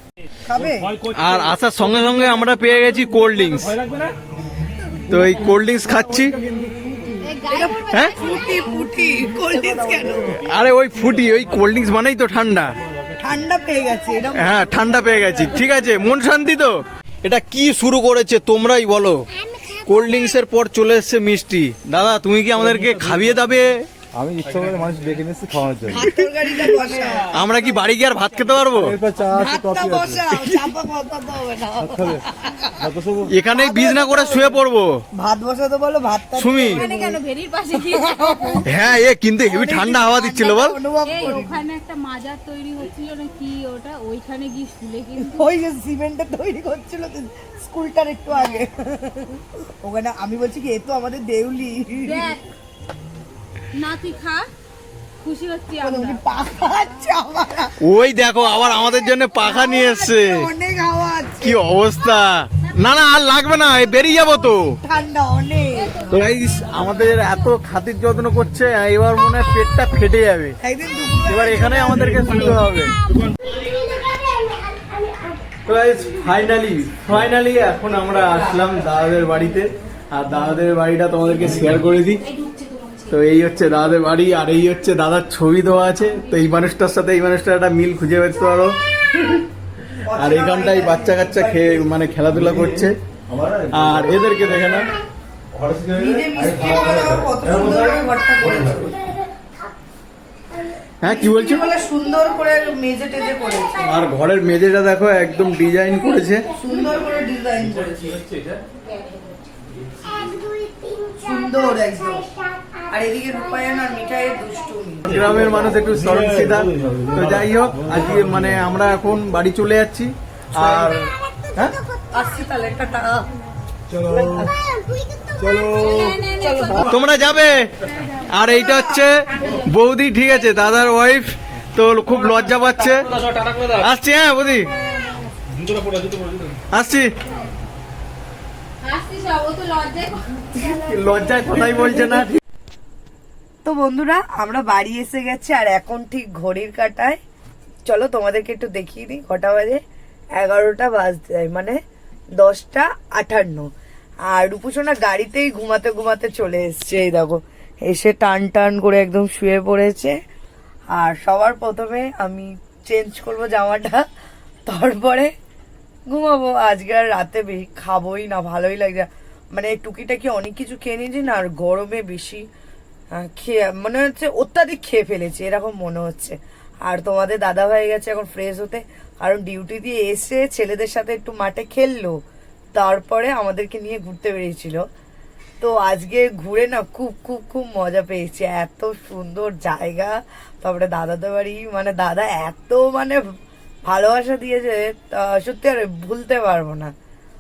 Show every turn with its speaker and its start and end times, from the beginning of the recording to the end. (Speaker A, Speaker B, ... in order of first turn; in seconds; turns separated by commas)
Speaker A: 0.5-1.0, Speaker B: 1.1-3.8, Speaker B: 5.1-6.4, Speaker A: 6.7-10.4, Speaker C: 7.2-9.2, Speaker B: 7.9-8.2, Speaker B: 10.4-12.7, Speaker A: 13.2-14.8, Speaker B: 14.4-23.9, Speaker D: 24.2-25.9, Speaker A: 25.8-27.3, Speaker B: 27.3-29.0, Speaker D: 29.0-29.5, Speaker A: 29.3-32.9, Speaker B: 30.4-30.6, Speaker D: 33.0-33.2, Speaker B: 33.3-35.0, Speaker A: 33.5-34.6, Speaker A: 35.1-37.2, Speaker B: 36.4-36.8, Speaker C: 36.7-38.6, Speaker A: 37.8-38.8, Speaker B: 38.7-40.8, Speaker A: 39.5-41.7, Speaker C: 41.0-45.5, Speaker A: 45.2-52.4, Speaker C: 52.0-52.4, Speaker C: 53.7-54.5, Speaker C: 55.2-56.2, Speaker A: 55.8-57.8, Speaker B: 57.8-60.5, Speaker A: 59.3-61.6, Speaker B: 61.4-64.8, Speaker A: 64.8-66.1, Speaker B: 66.1-70.6, Speaker A: 70.6-72.6, Speaker B: 71.3-72.9, Speaker B: 75.7-82.2, Speaker C: 82.5-82.9, Speaker B: 83.1-88.8, Speaker A: 90.1-91.9, Speaker B: 90.2-92.9, Speaker B: 93.7-94.9, Speaker A: 95.9-99.0, Speaker B: 101.0-101.7, Speaker A: 101.1-103.9, Speaker B: 103.8-106.5, Speaker A: 106.6-108.2, Speaker A: 111.2-112.3, Speaker A: 112.9-115.1, Speaker B: 115.1-121.8, Speaker A: 122.1-123.3, Speaker A: 124.0-124.5, Speaker C: 125.5-126.9, Speaker A: 126.4-126.9, Speaker B: 126.8-127.7, Speaker B: 128.2-134.7, Speaker B: 136.7-137.1, Speaker C: 138.8-140.7, Speaker B: 140.7-142.4, Speaker A: 143.7-147.2, Speaker A: 147.9-149.8, Speaker A: 150.4-151.8, Speaker A: 152.4-153.7, Speaker A: 154.3-160.2, Speaker A: 160.9-164.1, Speaker A: 164.7-165.3, Speaker A: 166.1-172.5, Speaker A: 173.1-182.2, Speaker A: 182.8-184.9, Speaker A: 185.6-193.2, Speaker A: 193.9-196.9